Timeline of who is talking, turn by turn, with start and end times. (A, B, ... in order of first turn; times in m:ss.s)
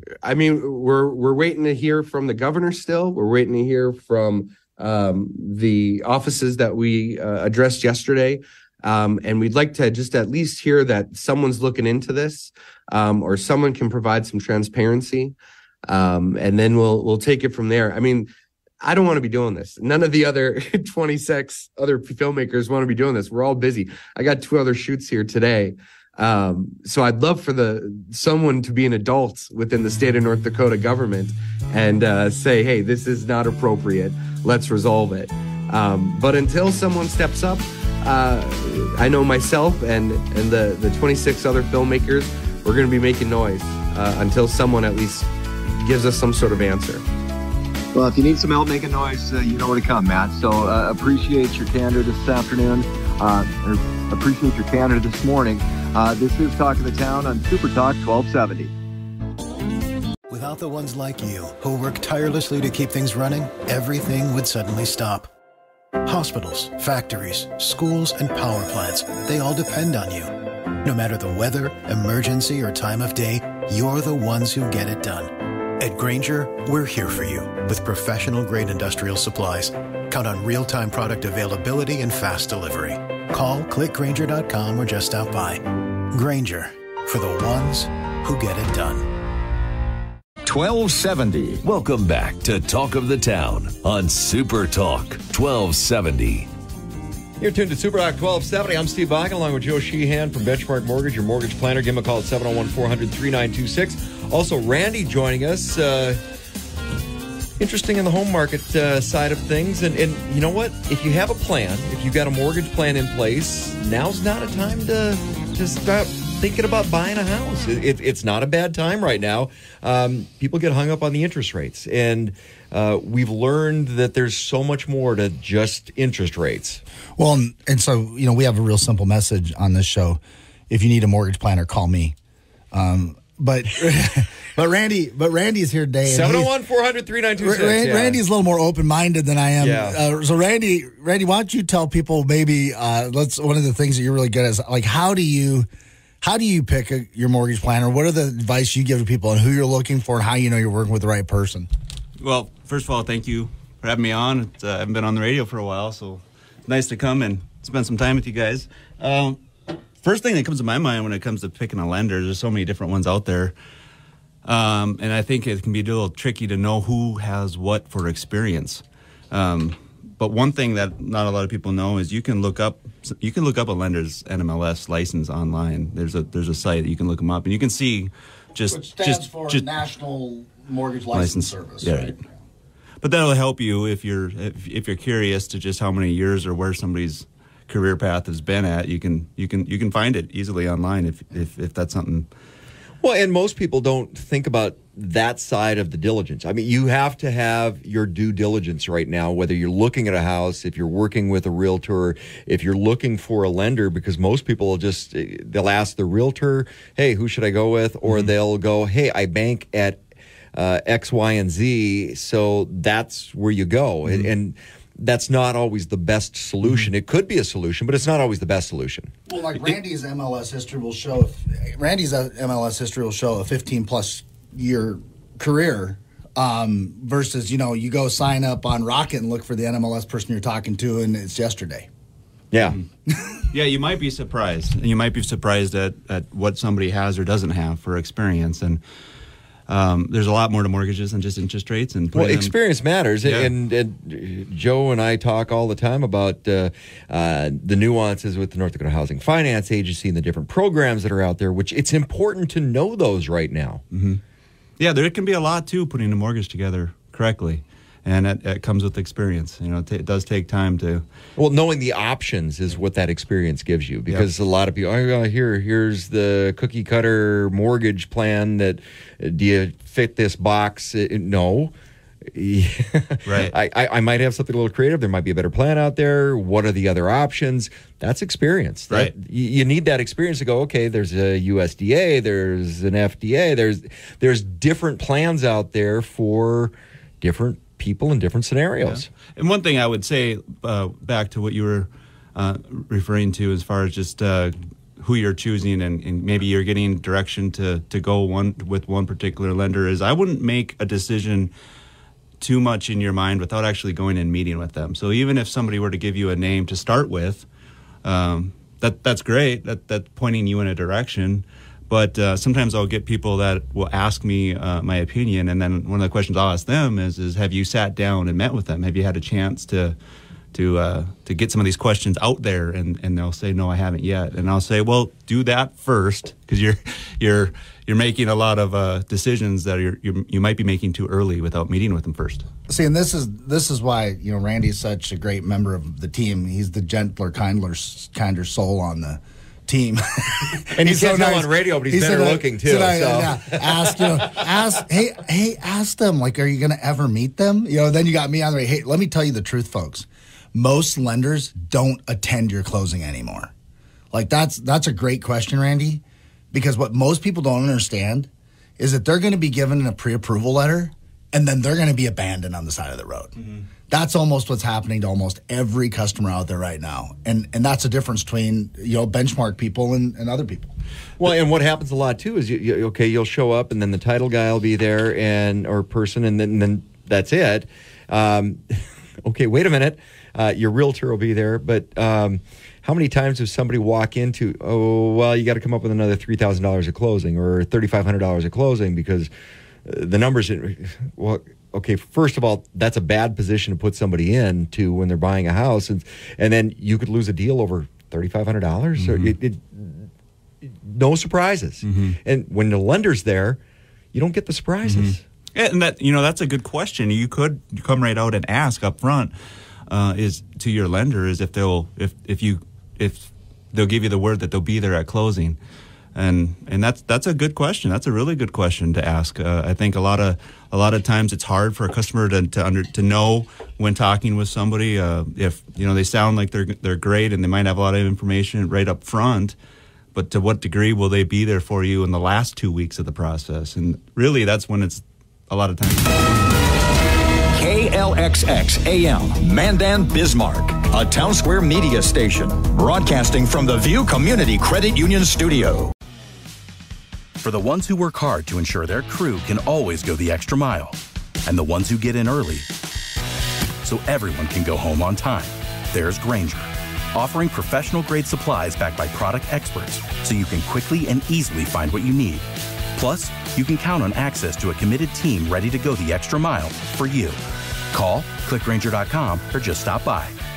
0:00.2-0:15.4 A
0:15.9-0:18.3 A
0:18.8-0:47.0 A
0:47.9-0:58.7 B
1:00.3-1:05.3 C
1:06.0-1:29.1 C
1:30.4-1:31.6 D
1:31.6-1:36.5 E
1:37.4-1:46.2 F
1:47.6-2:06.8 F
2:07.2-2:12.2 G
2:12.7-2:16.5 G
2:16.0-2:18.2 F
2:17.4-2:25.7 G
2:19.6-2:20.0 F
2:26.2-2:31.7 G
2:32.2-2:39.4 H
2:40.0-2:43.6 H
2:44.4-2:59.8 H
2:58.7-3:02.2 G
3:01.1-3:02.2 H
3:03.0-3:12.3 H
3:13.0-3:30.0 F
3:28.0-3:28.3 H
3:30.6-3:39.2 F
3:34.0-3:34.3 H
3:36.6-3:36.9 H
3:39.3-3:51.9 G
3:52.5-3:52.8 F
3:53.5-3:58.8 H
3:59.7-4:02.5 H
4:02.1-4:13.8 F
4:03.2-4:03.5 H
4:13.9-4:14.2 H
4:14.8-4:21.0 H
4:21.4-4:31.7 F
4:32.3-4:49.1 F
4:33.3-4:33.5 H
4:48.8-5:01.5 H
5:02.4-5:07.5 H
5:08.0-5:20.0 H
5:20.5-5:32.5 H
5:32.7-5:53.5 G
5:40.8-5:44.5 F
5:54.1-6:03.4 G
6:03.9-6:10.8 G
6:11.2-6:18.7 F
6:19.2-6:29.3 F
6:29.9-6:40.1 F
6:39.0-6:39.4 H
6:40.7-6:43.6 F
6:41.8-6:42.2 H
6:44.1-6:45.2 F
6:44.8-6:49.3 H
6:49.9-6:55.6 H
6:56.2-7:09.6 H
7:10.1-7:16.0 H
7:17.5-7:25.9 D
7:27.4-7:32.7 I
7:33.8-7:47.4 I
7:47.9-7:50.4 I